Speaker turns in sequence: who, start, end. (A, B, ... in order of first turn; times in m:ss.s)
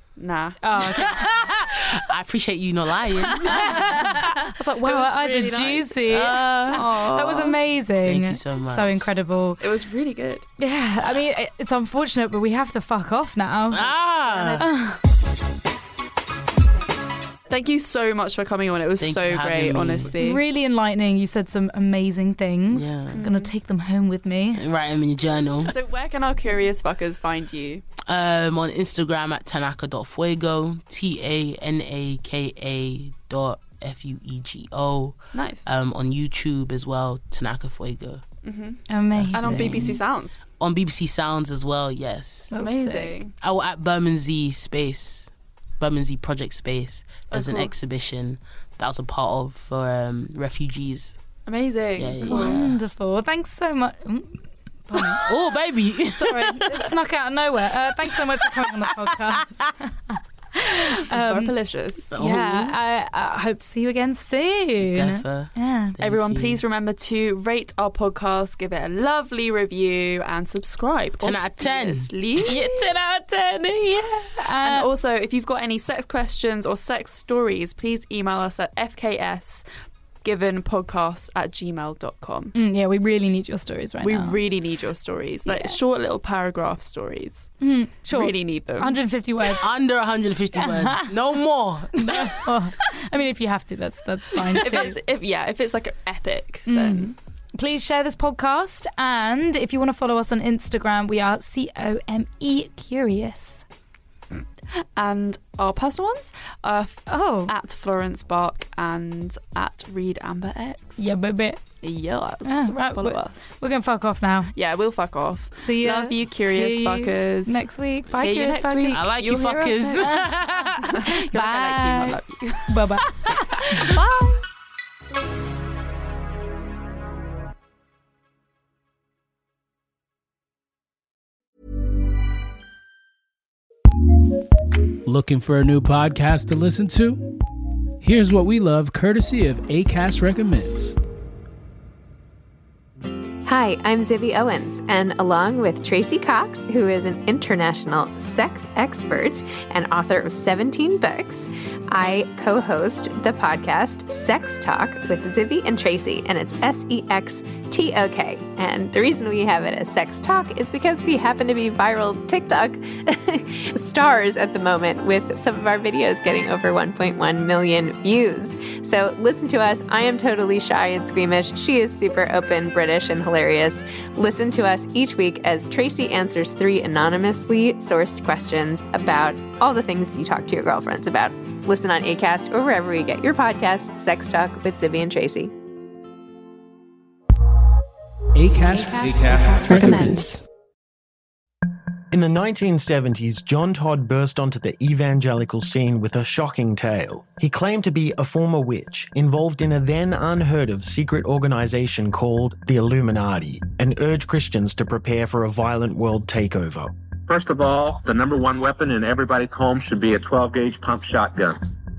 0:00.2-0:00.6 A
0:00.6-0:01.2 B
0:00.8-0:04.4 C
0:03.3-0:09.6 B
0:04.6-0:06.0 A
0:06.0-0:09.1 C
0:06.7-0:07.3 A
0:09.6-0:10.4 A
0:10.6-0:13.9 B
0:13.7-0:14.6 C
0:14.2-0:14.7 A
0:14.6-0:15.0 B
0:17.5-0:20.4 A
0:19.0-0:20.1 C
0:20.2-0:24.6 B
0:22.7-0:23.2 C
0:23.1-0:23.5 A
0:24.5-0:25.8 C
0:25.6-0:27.8 A
0:28.0-0:38.2 C
0:35.3-0:35.6 A
0:38.4-0:38.8 A
0:38.9-0:39.9 B
0:39.1-0:40.0 C
0:39.3-0:40.4 A
0:40.6-0:42.6 C
0:42.5-0:43.2 B
0:42.5-0:43.3 A
0:43.4-0:51.2 C
0:47.3-0:47.7 A
0:51.4-0:52.6 A
0:52.0-0:52.8 C
0:52.2-0:55.2 B
0:55.0-0:56.9 C
0:56.1-1:01.5 B
0:58.0-0:59.7 C
1:01.1-1:02.1 A
1:02.1-1:02.8 C
1:02.1-1:06.0 B
1:04.8-1:06.6 C
1:06.0-1:12.6 A
1:11.2-1:12.1 C
1:12.4-1:14.9 B
1:14.5-1:19.6 A
1:20.2-1:22.5 A
1:22.5-1:24.4 B
1:24.0-1:27.5 A
1:25.4-1:25.8 B
1:27.6-1:29.7 B
1:28.1-1:29.0 A
1:29.6-1:32.3 C
1:30.5-1:31.3 B
1:32.0-1:35.0 B
1:34.5-1:37.1 A
1:36.7-1:43.6 B
1:45.0-1:51.1 A
1:47.1-1:47.5 B
1:51.0-1:51.6 B
1:51.8-1:53.5 A
1:52.4-1:54.5 B
1:54.5-1:57.6 A
1:55.6-1:59.1 B
1:58.1-2:02.9 A
1:58.9-2:00.9 C
2:00.0-2:00.3 B
2:01.0-2:04.0 B
2:03.5-2:04.4 A
2:15.0-2:17.3 D
2:18.0-2:21.0 D
2:23.4-3:05.5 E
3:08.3-3:10.3 D
3:08.6-3:10.4 E
3:12.1-3:26.9 F
3:27.3-3:31.6 G